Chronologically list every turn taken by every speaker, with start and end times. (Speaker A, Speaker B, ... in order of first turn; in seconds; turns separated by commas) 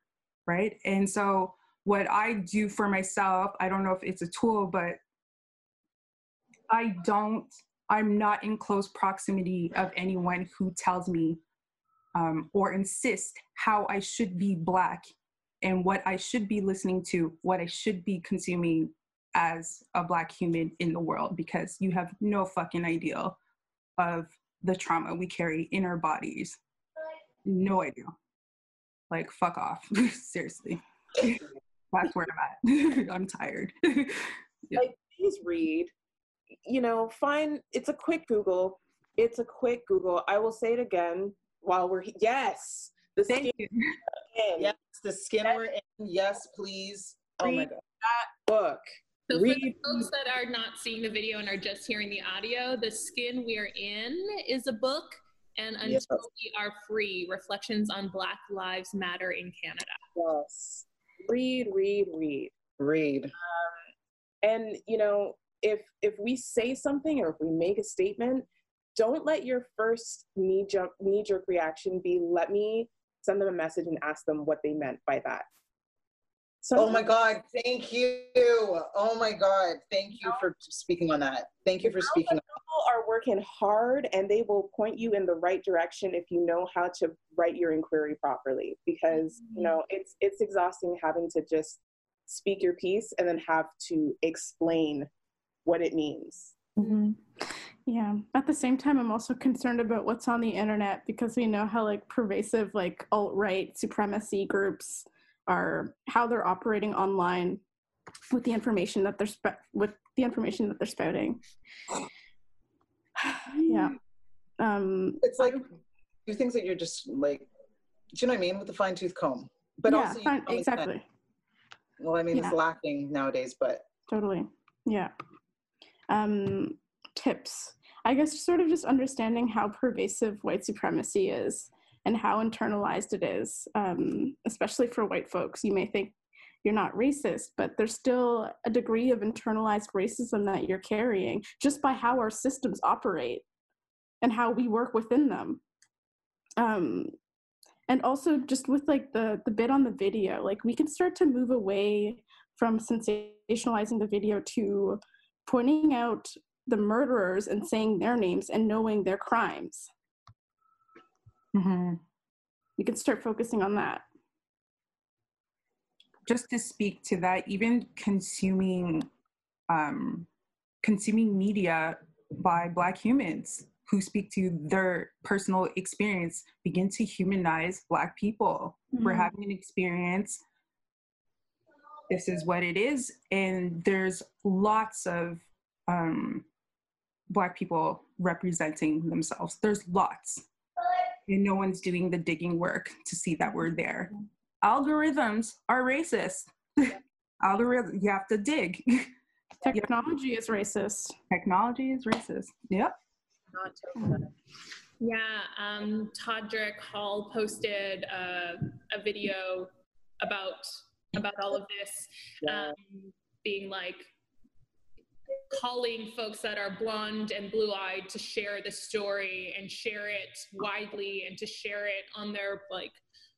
Speaker A: 0.5-5.0, Speaker A: 6.7-11.4, Speaker A: 12.1-23.4, Speaker A: 24.0-26.6, Speaker A: 27.4-28.1, Speaker A: 29.1-34.8, Speaker B: 34.7-35.9, Speaker B: 36.6-43.5, Speaker A: 43.3-44.0, Speaker B: 44.3-44.7, Speaker C: 44.6-47.8, Speaker B: 47.4-50.1, Speaker D: 49.3-60.0, Speaker C: 55.8-56.2, Speaker B: 60.1-62.5, Speaker C: 62.8-63.3, Speaker B: 63.4-63.9, Speaker B: 64.4-75.5, Speaker B: 76.6-77.0, Speaker C: 76.8-82.4, Speaker B: 81.8-95.1, Speaker B: 95.6-96.6, Speaker E: 96.8-97.2, Speaker E: 97.9-107.6, Speaker E: 108.3-111.4, Speaker E: 113.2-114.0, Speaker E: 114.6-115.6, Speaker C: 115.2-115.7, Speaker C: 116.2-117.5, Speaker C: 118.1-120.9, Speaker E: 119.9-121.0, Speaker C: 122.0-123.8, Speaker E: 124.1-125.1, Speaker E: 126.1-143.4, Speaker E: 144.2-145.6, Speaker E: 146.6-147.1, Speaker E: 147.9-159.9, Speaker A: 161.5-162.0, Speaker E: 162.8-164.0, Speaker A: 166.2-169.1, Speaker A: 169.7-170.3, Speaker A: 170.8-180.4, Speaker E: 178.9-179.3, Speaker A: 182.1-186.5, Speaker A: 187.3-190.4, Speaker A: 191.3-199.1, Speaker E: 199.6-201.2, Speaker A: 201.3-202.9, Speaker B: 203.5-204.3, Speaker D: 205.0-209.7, Speaker D: 210.2-214.1, Speaker B: 212.4-212.7, Speaker D: 215.5-223.0